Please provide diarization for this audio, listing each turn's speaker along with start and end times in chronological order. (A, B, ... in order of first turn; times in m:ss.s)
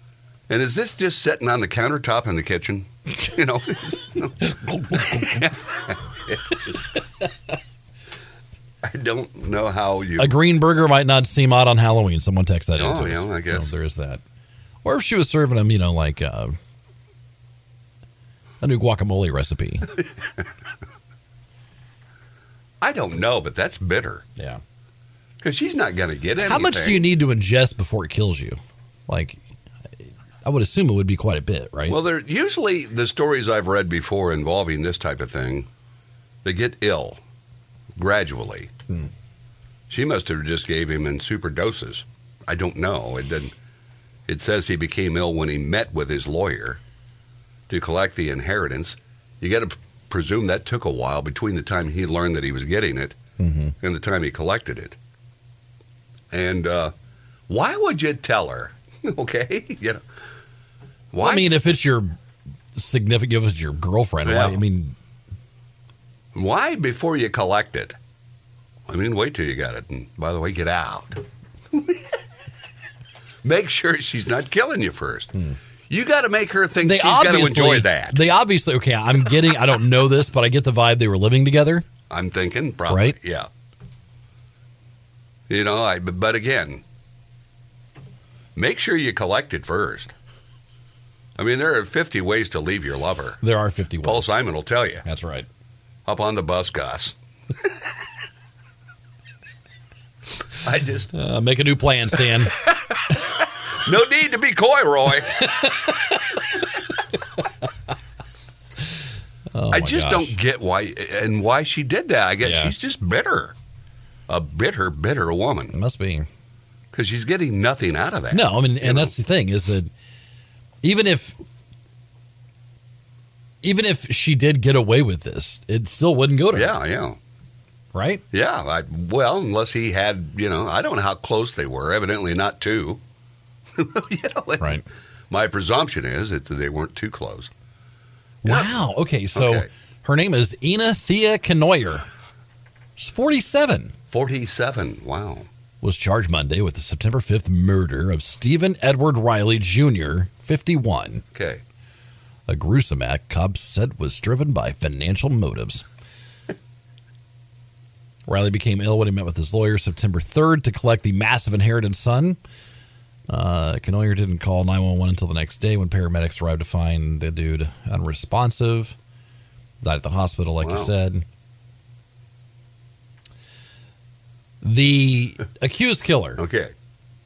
0:00.5-0:07.0 A
0:08.8-0:10.4 A
0:10.2-0:14.2 B
0:12.8-0:13.7 A
0:14.8-0:16.6 B
0:18.6-0:19.9 B
0:22.8-0:24.2 A
0:25.4-0:27.0 A
0:26.4-0:29.4 B
0:30.4-0:32.0 B
0:31.9-0:35.7 A
0:36.4-0:37.2 A
0:38.0-0:38.7 A
0:39.9-0:43.5 A
0:44.3-0:46.8 A
0:47.7-0:53.2 A
0:53.4-0:53.7 B
0:53.8-0:55.0 A
0:56.3-0:56.9 A
0:57.5-1:00.0 A
1:01.1-1:01.6 A
1:01.2-1:02.2 B
1:02.7-1:04.9 B
1:04.2-1:04.6 A
1:06.3-1:08.0 A
1:08.9-1:12.1 A
1:13.4-1:15.4 A
1:15.9-1:18.2 A
1:16.8-1:21.8 B
1:22.1-1:23.5 A
1:22.9-1:23.1 B
1:25.5-1:26.8 A
1:28.6-1:30.1 A
1:31.4-1:33.4 A
1:33.4-1:34.3 B
1:34.0-1:35.0 A
1:35.0-1:35.5 B
1:36.0-1:37.1 A
1:40.6-1:41.1 A
1:41.1-1:42.6 B
1:42.9-1:45.6 A
1:45.6-1:45.9 B
1:49.5-1:50.4 B
1:49.7-1:53.5 A
1:52.4-1:52.7 B
1:54.3-1:55.7 A
1:55.7-1:56.3 B
1:56.9-1:59.1 A
1:58.3-1:59.9 B
2:00.8-2:01.4 B
2:03.6-2:06.7 B
2:06.5-2:07.2 A
2:07.9-2:08.2 B
2:08.3-2:13.0 A
2:13.7-2:17.5 A
2:14.6-2:14.8 B
2:18.4-2:22.1 B
2:18.4-2:18.7 A
2:19.3-2:19.7 A
2:23.0-2:23.9 B
2:24.1-2:25.5 A
2:25.8-2:31.2 B
2:31.3-2:31.6 A
2:32.5-2:35.8 B
2:38.3-2:42.4 B
2:43.3-2:49.0 B
2:49.8-2:51.2 B
2:50.6-2:50.9 A
2:54.6-2:56.4 B
2:56.4-2:56.7 A